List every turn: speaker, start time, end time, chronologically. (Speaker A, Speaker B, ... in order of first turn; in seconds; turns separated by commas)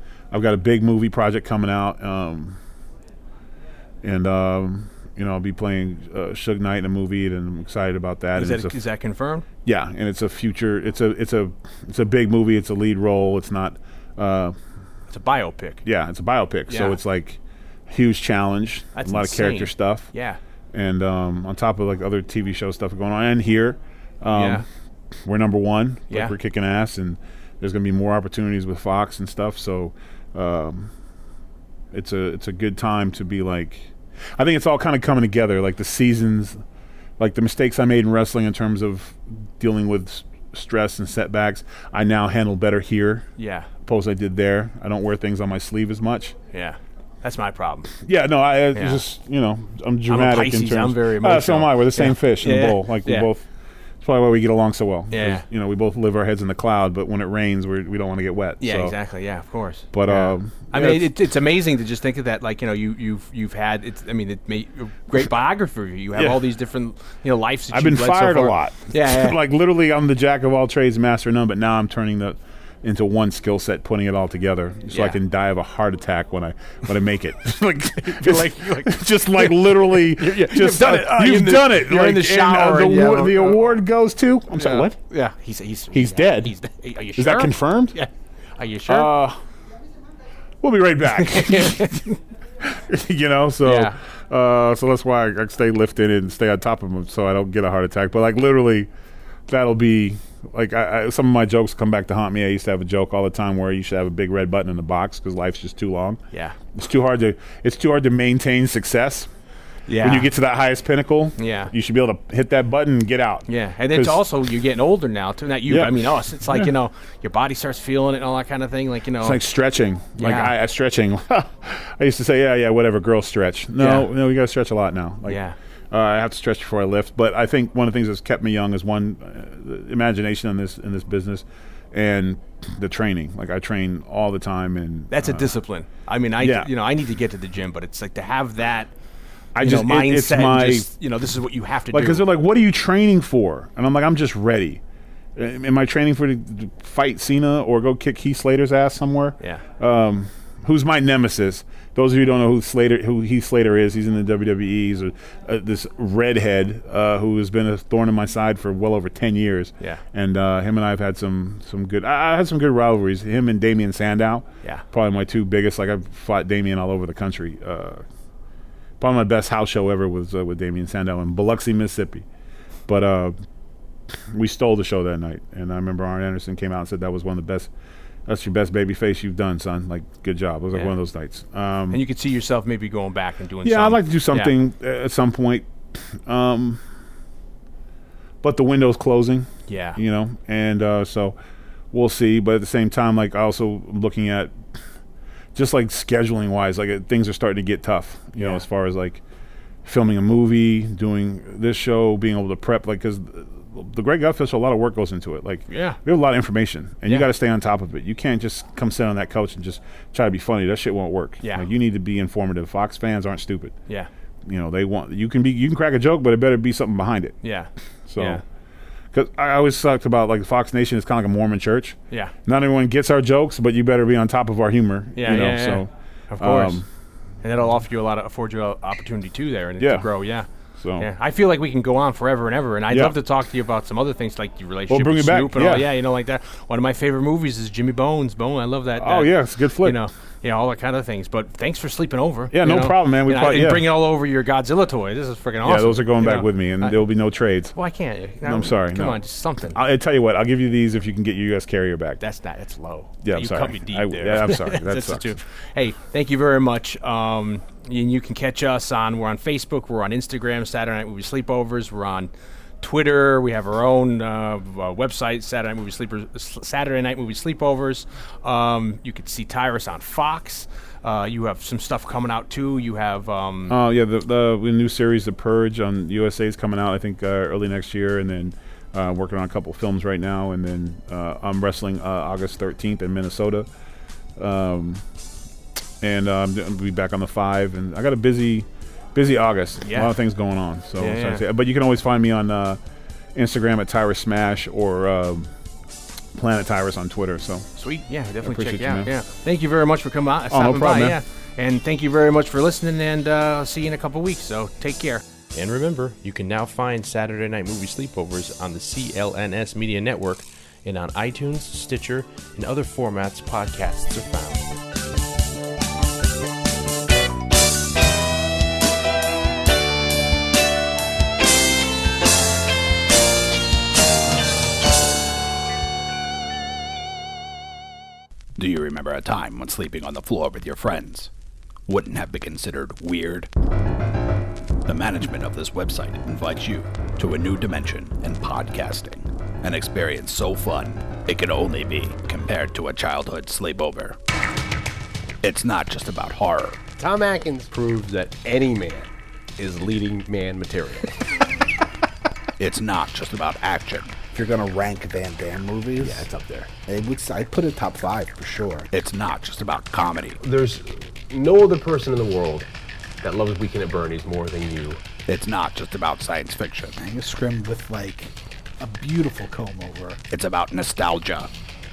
Speaker A: 0.3-2.6, Speaker A: 4.0-8.7, Speaker B: 8.3-9.4, Speaker A: 9.6-14.6, Speaker B: 15.1-15.8, Speaker A: 15.8-20.1, Speaker B: 16.7-17.0, Speaker B: 18.9-20.4, Speaker A: 20.7-24.6, Speaker B: 24.3-24.6, Speaker A: 25.2-30.9, Speaker B: 26.1-26.3, Speaker A: 31.9-36.6, Speaker A: 37.2-43.3, Speaker B: 43.4-43.7, Speaker A: 43.8-46.4, Speaker B: 46.5-47.9, Speaker A: 48.0-53.5, Speaker B: 48.7-49.0, Speaker B: 50.1-53.3, Speaker A: 54.0-59.0, Speaker B: 55.1-55.4, Speaker B: 58.6-69.4, Speaker A: 59.9-61.1, Speaker A: 67.7-85.0, Speaker B: 74.9-75.2, Speaker B: 78.0-83.8, Speaker B: 84.5-89.1, Speaker A: 85.9-86.5, Speaker A: 87.2-88.0, Speaker A: 88.9-89.4, Speaker A: 90.6-92.1, Speaker B: 91.2-92.2, Speaker A: 92.6-98.9, Speaker B: 93.6-94.0, Speaker A: 99.5-106.2, Speaker B: 106.3-106.6, Speaker A: 106.7-109.3, Speaker B: 109.9-110.3, Speaker A: 110.0-114.2, Speaker B: 111.4-111.7, Speaker B: 113.5-119.4, Speaker A: 115.7-116.7, Speaker A: 119.2-135.6, Speaker B: 120.2-120.5, Speaker B: 123.8-124.1, Speaker B: 125.2-125.5, Speaker B: 135.1-138.9, Speaker A: 136.4-136.7, Speaker A: 139.5-140.9, Speaker B: 139.6-142.3, Speaker A: 141.9-144.8, Speaker A: 145.3-168.0, Speaker A: 169.0-172.2, Speaker A: 172.9-173.3, Speaker A: 174.3-177.7, Speaker A: 178.2-182.0, Speaker B: 181.9-184.5, Speaker A: 183.6-186.8, Speaker A: 188.4-191.3, Speaker B: 189.7-190.0, Speaker A: 191.9-194.6, Speaker A: 195.5-199.2, Speaker B: 198.4-198.6, Speaker A: 199.8-213.8, Speaker B: 205.7-206.0, Speaker B: 211.4-211.7, Speaker A: 214.4-217.3, Speaker B: 217.4-218.4, Speaker A: 218.1-218.4, Speaker A: 219.1-226.9, Speaker B: 225.2-226.8, Speaker B: 227.4-247.1, Speaker A: 229.8-230.1, Speaker A: 230.8-231.1, Speaker A: 232.9-233.2, Speaker A: 234.9-235.9, Speaker A: 239.0-240.0, Speaker A: 242.5-243.9, Speaker A: 245.6-247.7, Speaker B: 247.7-249.8, Speaker A: 248.4-249.2, Speaker A: 249.7-252.2, Speaker B: 252.2-273.8, Speaker A: 253.2-255.3, Speaker A: 273.7-283.7, Speaker A: 284.4-285.0, Speaker A: 286.0-292.8, Speaker B: 289.8-290.1, Speaker B: 291.0-291.4, Speaker A: 293.3-295.5, Speaker A: 296.3-297.7, Speaker B: 297.8-314.7, Speaker A: 298.4-299.1, Speaker A: 300.5-301.2, Speaker C: 328.6-331.3, Speaker C: 331.9-333.5, Speaker C: 334.9-344.2, Speaker C: 345.4-346.8, Speaker D: 347.0-351.2, Speaker C: 352.6-354.1, Speaker E: 354.3-356.3, Speaker D: 356.0-356.7, Speaker E: 356.9-358.9, Speaker C: 358.9-360.4, Speaker D: 360.4-362.7, Speaker D: 363.2-365.1, Speaker C: 365.2-368.3, Speaker E: 367.5-367.9, Speaker E: 368.8-370.2, Speaker C: 370.2-371.5